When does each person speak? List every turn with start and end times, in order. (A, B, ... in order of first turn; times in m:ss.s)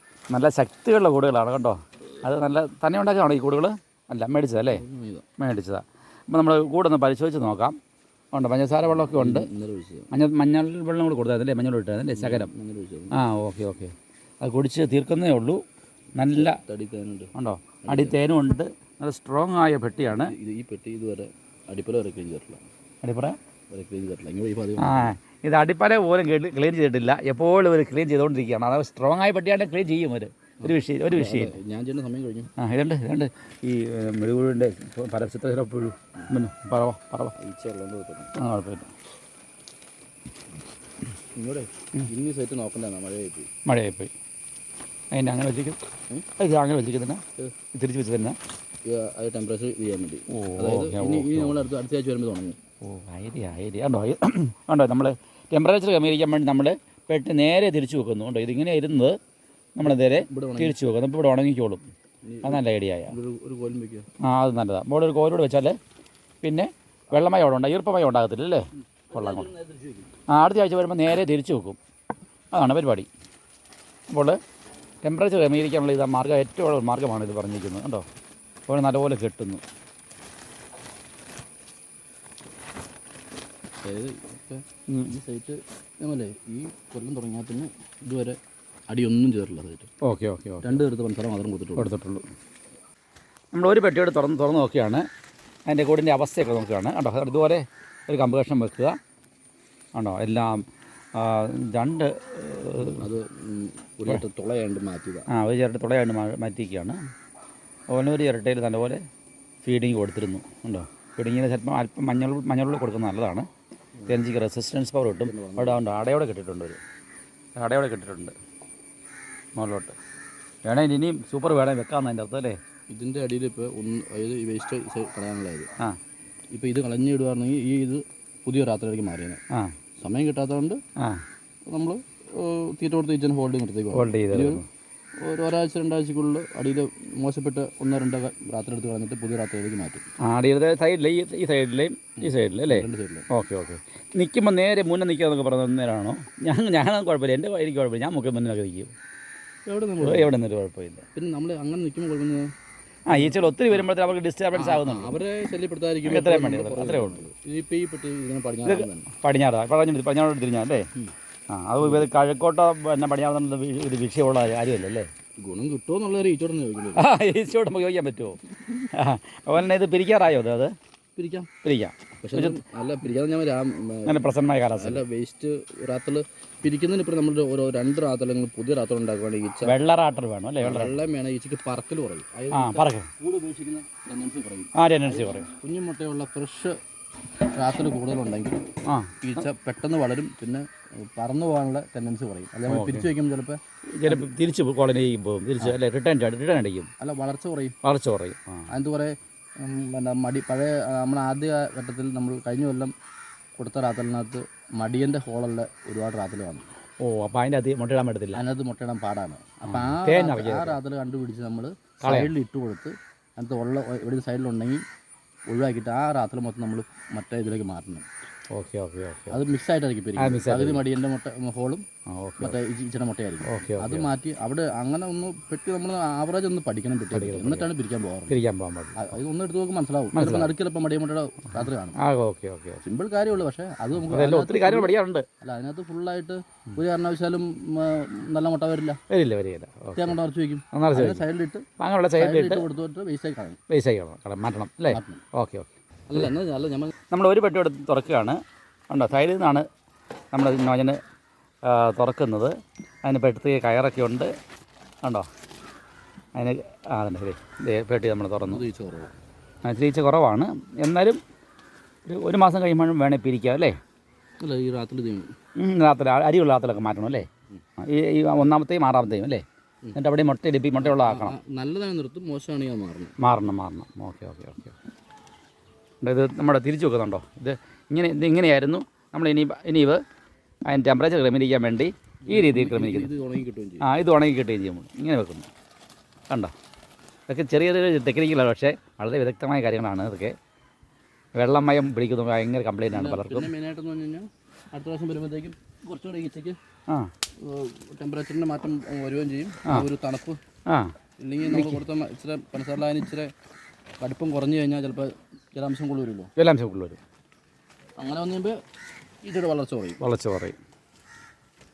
0:00.3-0:04.8 A
0:04.7-0:05.2 B
0:05.4-0:07.8 A
0:08.3-0:09.5 A
0:08.9-0:10.1 B
0:10.1-0:12.5 A
0:12.1-0:13.2 B
0:13.1-0:15.6 A
0:16.1-0:16.6 A
0:16.3-0:17.3 B
0:17.3-0:20.3 A
0:17.8-0:18.2 B
0:20.0-0:22.6 B
0:23.0-0:23.4 A
0:23.7-0:25.1 B
0:24.8-0:31.6 A
0:30.6-0:32.5 B
0:32.6-0:37.3 A
0:37.4-0:38.4 B
0:38.4-0:38.9 A
0:41.4-0:43.5 B
0:43.6-0:44.1 A
0:45.1-0:45.8 A
0:46.4-0:48.4 A
0:48.8-0:52.6 B
0:50.3-0:51.6 A
0:52.8-0:59.2 A
0:59.8-1:01.8 A
0:59.8-1:00.8 B
1:02.2-1:04.0 B
1:02.4-1:03.1 A
1:04.2-1:05.8 A
1:06.4-1:09.5 A
1:09.1-1:10.1 B
1:10.3-1:11.8 A
1:12.5-1:13.1 A
1:14.1-1:14.4 A
1:15.0-1:18.0 A
1:18.7-1:19.6 A
1:23.8-1:28.4 B
1:24.9-1:25.1 A
1:28.9-1:29.9 B
1:30.0-1:30.8 A
1:30.6-1:31.9 B
1:31.8-1:32.2 A
1:33.5-1:35.0 A
1:35.6-1:39.0 A
1:39.9-1:43.1 A
1:42.8-1:45.3 B
1:45.3-1:47.0 A
1:47.9-1:49.0 A
1:49.6-1:53.5 A
1:54.1-1:56.8 A
1:55.2-1:55.8 B
1:57.6-1:58.3 A
1:59.5-2:00.0 A
2:00.6-2:02.6 A
2:02.9-2:05.7 B
2:06.5-2:09.4 B
2:10.0-2:10.8 B
2:11.0-2:11.2 A
2:11.7-2:14.6 B
2:13.9-2:14.6 A
2:15.2-2:20.0 B
2:20.2-2:28.9 A
2:22.2-2:23.3 B
2:29.7-2:30.3 B
2:30.0-2:31.0 A
2:31.1-2:32.5 B
2:33.1-2:33.8 B
2:33.1-2:35.2 A
2:34.5-2:39.1 B
2:36.0-2:37.2 A
2:38.6-2:40.9 A
2:41.5-2:45.1 A
2:41.8-2:42.1 B
2:45.4-2:47.0 B
2:47.0-2:50.7 A
2:51.2-2:51.5 B
2:51.6-2:52.6 A
2:52.2-2:59.8 B
2:54.0-2:55.0 A
2:59.6-3:01.0 A
3:00.6-3:06.8 B
3:02.5-3:03.1 A
3:04.7-3:05.5 A
3:07.5-3:08.6 B
3:08.8-3:09.4 A
3:09.2-3:14.2 B
3:12.7-3:13.1 A
3:13.9-3:16.9 A
3:17.0-3:17.7 B
3:17.8-3:18.6 A
3:18.7-3:22.9 B
3:23.6-3:26.7 B
3:27.0-3:28.4 A
3:28.3-3:34.8 B
3:29.7-3:30.8 A
3:32.0-3:32.3 A
3:35.5-3:38.0 B
3:38.5-3:39.4 A
3:39.3-3:41.8 B
3:40.2-3:40.8 A
3:42.1-3:42.6 A
3:42.4-3:48.4 B
3:43.4-3:44.1 A
3:47.1-3:47.7 A
3:48.3-3:49.2 A
3:48.9-3:52.0 B
3:50.1-3:50.5 A
3:52.0-3:52.8 A
3:52.8-3:59.0 B
3:54.1-3:55.2 A
3:59.1-4:00.2 A
4:00.0-4:03.6 B
4:00.7-4:01.2 A
4:01.8-4:02.6 A
4:03.7-4:05.7 A
4:04.9-4:05.2 B
4:06.1-4:06.9 B
4:07.1-4:08.4 A
4:08.9-4:09.6 A
4:10.3-4:11.0 A
4:11.6-4:14.3 A
4:16.3-4:18.6 A
4:18.5-4:19.1 B
4:19.6-4:21.2 A
4:22.0-4:23.8 A
4:24.4-4:25.3 B
4:25.6-4:27.3 A
4:27.8-4:29.4 A
4:29.9-4:31.3 A
4:30.8-4:33.2 B
4:33.2-4:34.8 A
4:36.0-4:40.0 A
4:40.7-4:43.1 A
4:42.3-4:43.9 B
4:43.8-4:45.5 A
4:47.3-4:50.3 A
4:51.3-4:53.5 A
4:52.9-4:56.6 B
4:57.4-5:00.4 B
5:00.7-5:00.9 A
5:01.2-5:03.3 B
5:01.5-5:01.8 A
5:04.0-5:06.3 B
5:06.4-5:07.0 A
5:08.0-5:08.6 B
5:09.2-5:10.0 B
5:10.0-5:10.6 A